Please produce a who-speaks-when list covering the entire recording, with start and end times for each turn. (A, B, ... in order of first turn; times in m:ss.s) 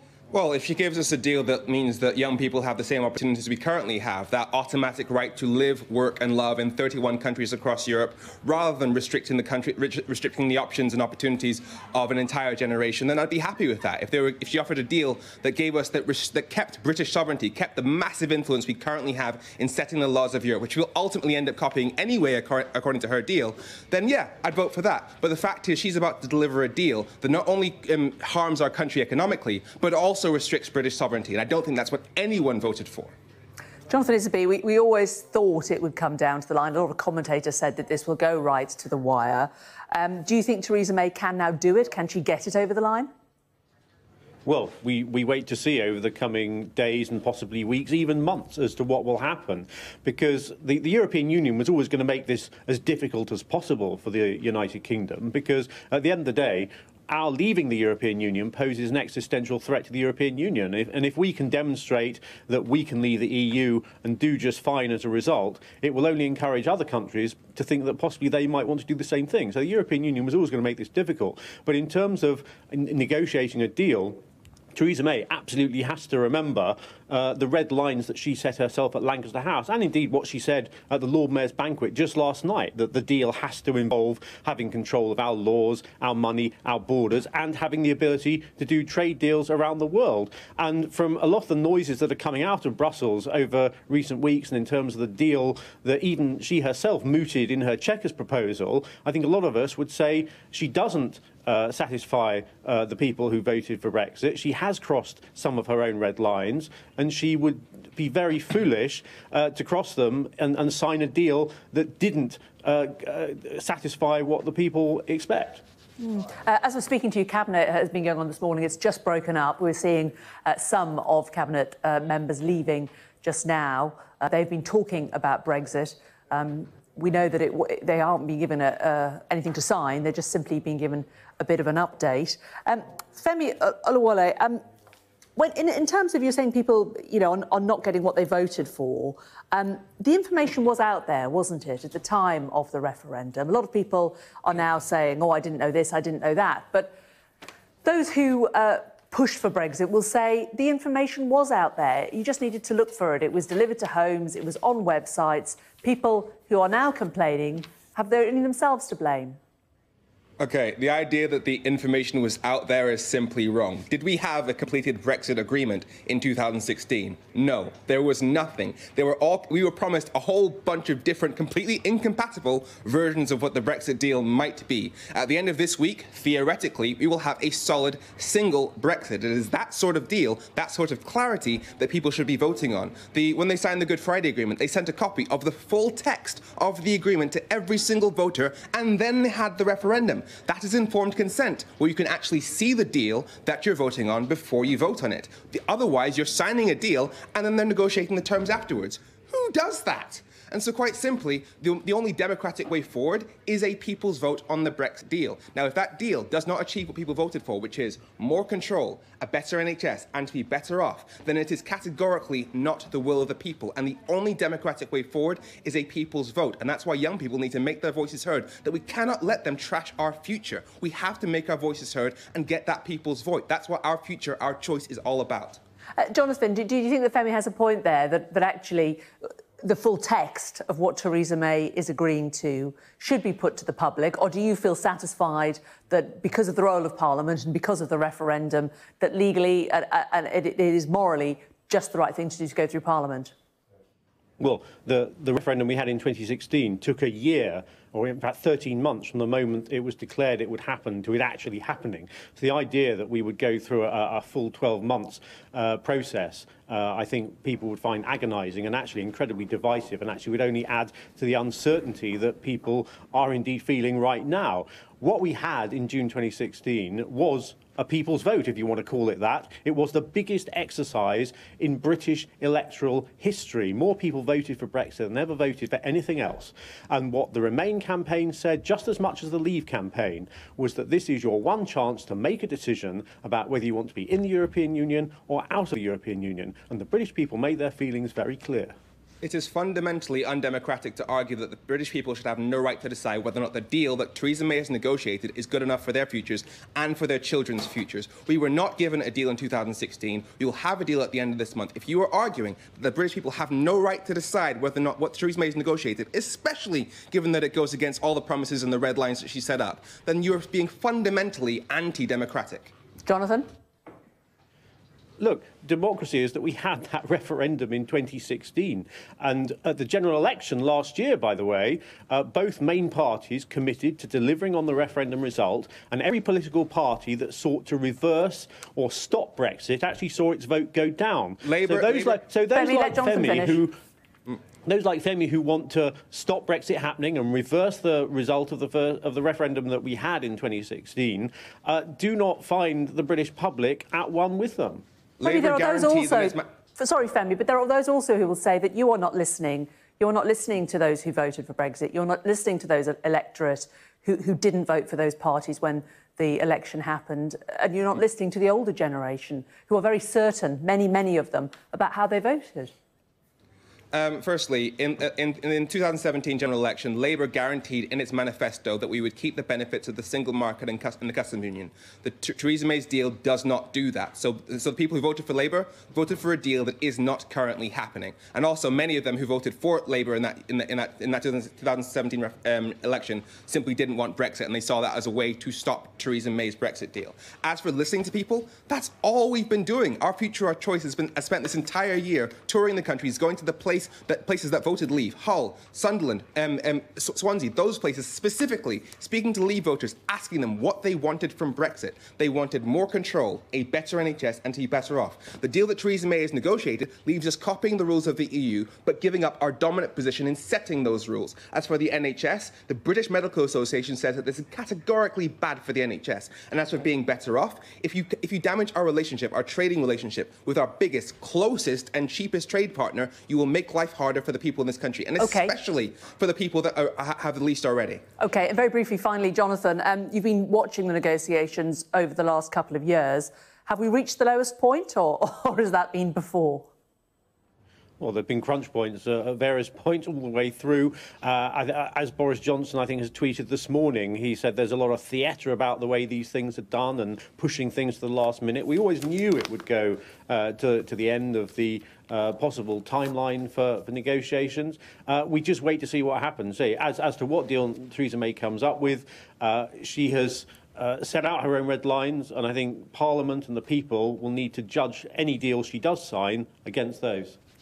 0:00.3-0:33.1 A
0:33.9-0:43.1 B
0:44.4-1:14.2 C
1:14.7-1:55.6 C
1:56.0-2:14.6 B
2:15.4-2:27.0 B
2:27.8-2:39.4 B
2:40.4-3:45.6 A
3:46.0-3:49.0 B
3:49.6-4:03.3 B
4:04.4-4:48.7 C
4:49.2-5:12.7 A
5:13.0-5:13.5 B
5:15.2-5:33.8 C
5:31.4-5:32.2 A
5:32.5-5:33.6 B
5:34.6-5:44.8 C
5:45.2-5:46.4 A
5:45.2-6:02.7 B
6:03.9-7:08.0 A
7:05.2-7:05.5 B
7:08.2-7:16.7 B
7:18.0-7:47.4 C